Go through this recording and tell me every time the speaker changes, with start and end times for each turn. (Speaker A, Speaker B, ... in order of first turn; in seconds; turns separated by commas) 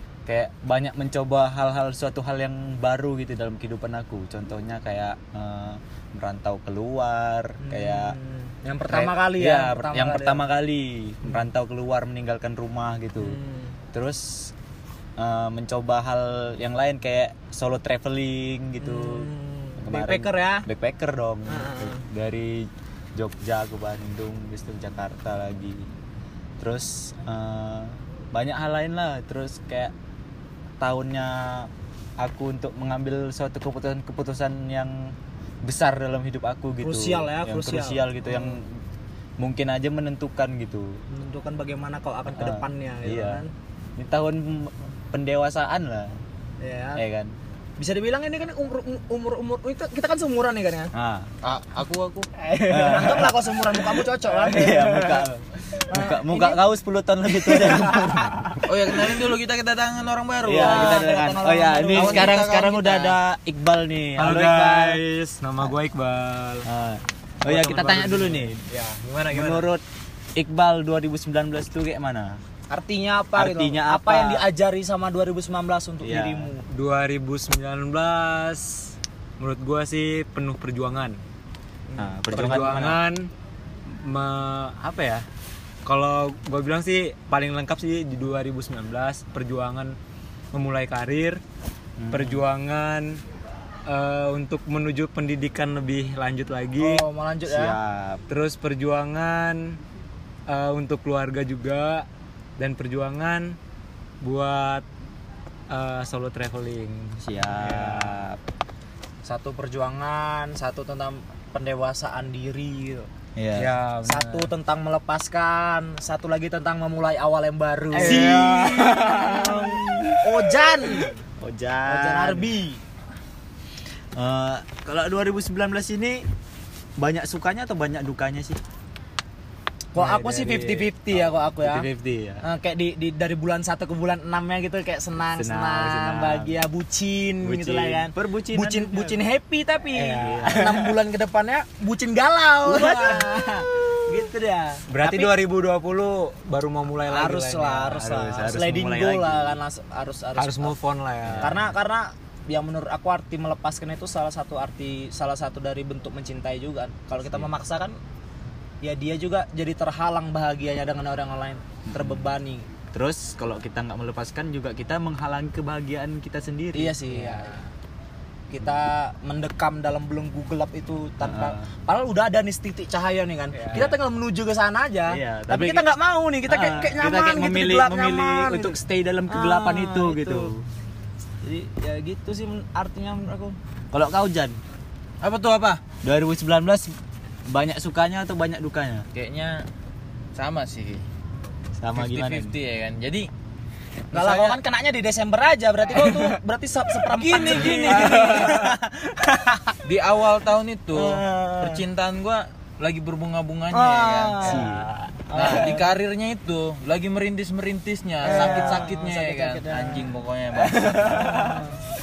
Speaker A: 0.2-8.2, Speaker B: 7.6-10.4, Speaker A: 8.9-13.4, Speaker B: 13.2-13.8, Speaker A: 13.9-14.5, Speaker A: 15.2-25.9, Speaker B: 18.8-20.6, Speaker B: 21.5-22.0, Speaker A: 26.6-29.9, Speaker A: 30.8-38.8, Speaker B: 36.8-38.6, Speaker A: 39.4-41.0, Speaker B: 41.1-43.5, Speaker A: 42.3-43.4, Speaker A: 44.0-46.2, Speaker B: 46.6-47.0, Speaker A: 47.0-47.3, Speaker B: 47.8-50.9, Speaker A: 50.9-51.3, Speaker C: 51.4-52.3, Speaker B: 52.4-55.2, Speaker A: 52.7-58.6, Speaker B: 55.8-56.6, Speaker B: 57.3-58.6, Speaker C: 58.6-61.1, Speaker A: 60.4-65.0, Speaker B: 60.5-62.4, Speaker C: 61.9-63.2, Speaker D: 64.2-66.7, Speaker A: 66.6-68.6, Speaker D: 67.4-69.7, Speaker A: 69.3-69.8, Speaker A: 70.3-72.4, Speaker B: 72.7-76.6, Speaker A: 73.3-74.5, Speaker A: 76.0-76.5, Speaker D: 76.7-81.2, Speaker B: 81.9-82.6, Speaker A: 82.0-83.0, Speaker D: 82.3-83.3, Speaker D: 83.9-85.2, Speaker D: 85.8-90.0, Speaker D: 90.5-91.4, Speaker A: 92.0-92.5, Speaker D: 92.1-93.2, Speaker D: 93.8-97.0, Speaker B: 96.8-97.8, Speaker A: 97.5-98.2, Speaker D: 98.3-99.8, Speaker D: 100.5-102.1, Speaker D: 102.6-103.6, Speaker D: 104.2-104.8, Speaker D: 105.7-108.4, Speaker A: 107.2-108.3, Speaker B: 109.2-113.1, Speaker A: 113.3-113.8, Speaker D: 113.5-114.5, Speaker B: 114.0-121.1, Speaker D: 117.9-120.0, Speaker A: 117.9-120.3, Speaker A: 121.0-122.5, Speaker B: 121.8-122.8, Speaker A: 124.2-126.2, Speaker A: 127.0-128.6, Speaker B: 129.9-131.9, Speaker D: 130.0-130.9, Speaker A: 131.1-132.4, Speaker B: 132.4-145.3, Speaker A: 135.3-136.6, Speaker A: 137.4-139.2, Speaker A: 139.9-140.9, Speaker A: 142.7-143.2, Speaker D: 144.9-148.1, Speaker B: 147.1-150.8, Speaker A: 147.9-149.6, Speaker D: 150.4-151.6, Speaker A: 151.2-151.7, Speaker B: 151.4-158.0, Speaker B: 158.8-162.7, Speaker A: 161.9-162.3, Speaker A: 162.9-167.0, Speaker B: 166.7-167.6, Speaker D: 167.1-167.4, Speaker B: 168.5-178.8, Speaker A: 171.2-171.7, Speaker D: 173.5-173.9, Speaker A: 175.1-175.9, Speaker A: 176.4-180.7, Speaker B: 179.3-180.5, Speaker B: 181.4-183.6, Speaker A: 183.9-184.6, Speaker C: 185.2-185.8, Speaker A: 186.0-186.9, Speaker A: 187.5-189.1, Speaker C: 189.1-189.7, Speaker C: 190.3-191.0, Speaker A: 191.8-192.5, Speaker C: 191.9-193.3, Speaker B: 194.1-199.8, Speaker C: 194.1-194.6, Speaker C: 197.2-198.6, Speaker D: 197.5-198.7, Speaker C: 199.8-204.7, Speaker B: 200.9-201.8, Speaker B: 203.7-205.9, Speaker A: 204.4-204.9, Speaker C: 205.3-211.5, Speaker B: 208.2-210.1, Speaker B: 210.8-211.8